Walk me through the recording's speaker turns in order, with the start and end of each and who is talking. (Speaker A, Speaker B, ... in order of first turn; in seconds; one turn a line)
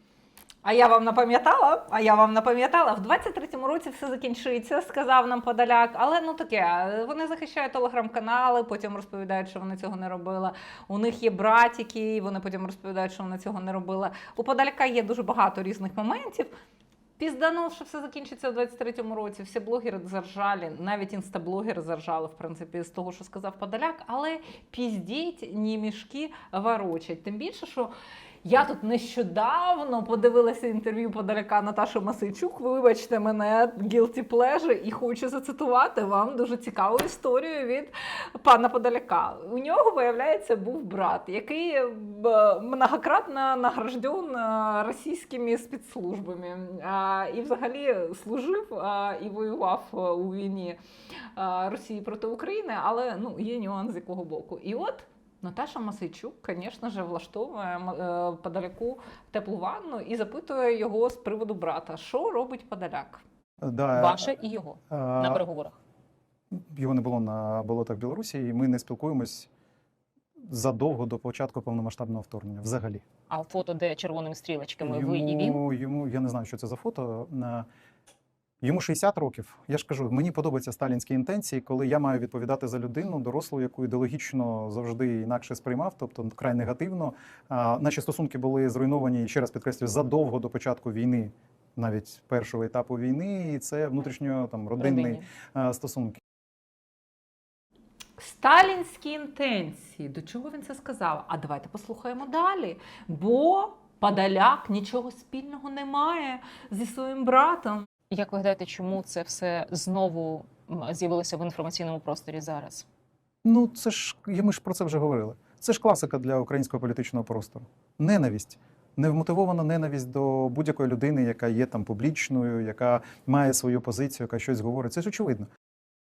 Speaker A: 0.6-16.5
Speaker A: 17.2-27.9
Speaker A: 28.4-50.8
Speaker A: 51.3-63.2
Speaker B: 63.6-64.3
Speaker C: 63.9-65.8
Speaker B: 64.9-65.4
Speaker B: 66.5-69.5
Speaker B: 70.5-73.0
Speaker C: 73.3-75.6
Speaker B: 74.8-77.7
Speaker B: 78.6-96.2
Speaker C: 94.8-95.2
Speaker A: 98.2-107.8
Speaker C: 108.1-112.8
Speaker B: 113.4-125.5